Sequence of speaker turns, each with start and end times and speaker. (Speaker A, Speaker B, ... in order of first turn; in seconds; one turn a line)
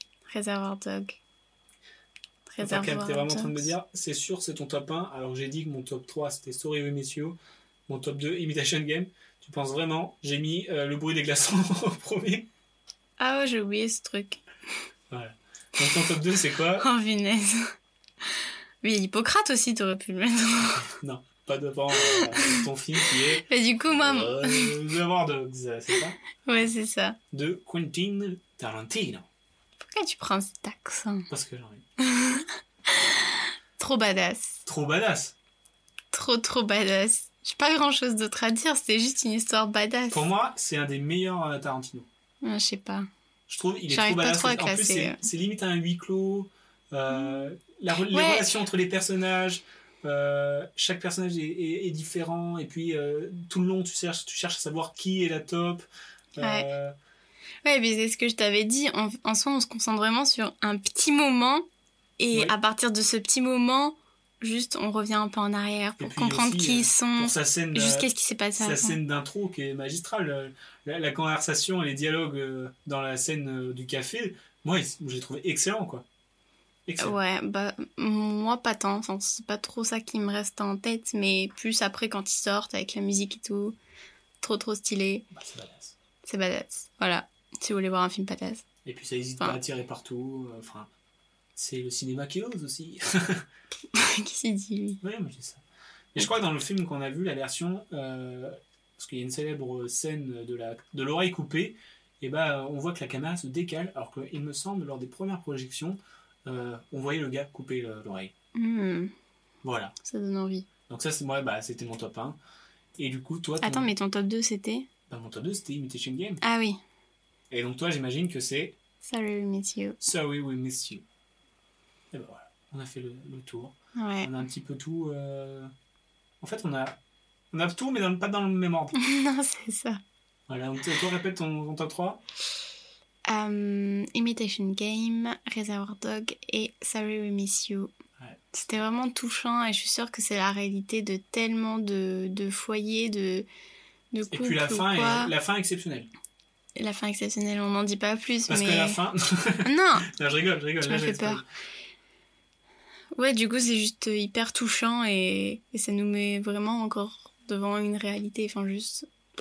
Speaker A: 0.3-1.2
Speaker A: 2.5-3.7
Speaker B: 2.6-7.4
Speaker B: 7.9-12.5
Speaker A: 13.2-14.4
Speaker B: 15.1-16.9
Speaker A: 16.8-17.7
Speaker A: 18.8-20.8
Speaker B: 20.7-26.2
Speaker A: 21.9-22.6
Speaker A: 23.5-24.7
Speaker A: 26.4-27.2
Speaker B: 27.3-29.3
Speaker A: 29.8-31.3
Speaker B: 31.3-31.8
Speaker A: 32.0-34.6
Speaker B: 34.7-35.4
Speaker A: 36.1-40.3
Speaker B: 40.1-42.1
Speaker A: 42.4-43.1
Speaker B: 43.5-55.9
Speaker A: 43.9-45.2
Speaker A: 47.1-47.5
Speaker A: 48.1-48.5
Speaker B: 56.4-56.9
Speaker A: 56.4-56.7
Speaker A: 57.6-61.7
Speaker A: 62.2-69.0
Speaker B: 66.0-76.0
Speaker B: 76.9-77.2
Speaker A: 77.0-83.8
Speaker A: 84.4-85.3
Speaker B: 85.3-86.0
Speaker A: 86.2-88.6
Speaker B: 88.8-90.9
Speaker B: 91.6-93.5
Speaker A: 93.9-95.0
Speaker B: 95.0-95.6
Speaker B: 96.2-108.3
Speaker A: 108.5-109.1
Speaker B: 109.6-110.0
Speaker A: 110.0-110.7
Speaker B: 110.9-112.4
Speaker B: 113.0-113.9
Speaker A: 113.6-114.9
Speaker B: 115.1-116.4
Speaker A: 116.4-116.8
Speaker B: 117.5-118.8
Speaker A: 119.0-120.0
Speaker B: 120.0-121.0
Speaker B: 122.1-125.7
Speaker A: 124.0-124.3
Speaker B: 126.4-127.0
Speaker B: 127.5-128.9
Speaker A: 129.0-130.0
Speaker B: 130.5-132.2
Speaker A: 133.3-137.9
Speaker A: 138.5-143.5
Speaker A: 144.1-145.3
Speaker B: 144.3-146.1
Speaker A: 146.8-149.0
Speaker B: 148.5-151.4
Speaker A: 149.7-150.1
Speaker A: 150.8-151.4
Speaker A: 153.2-159.1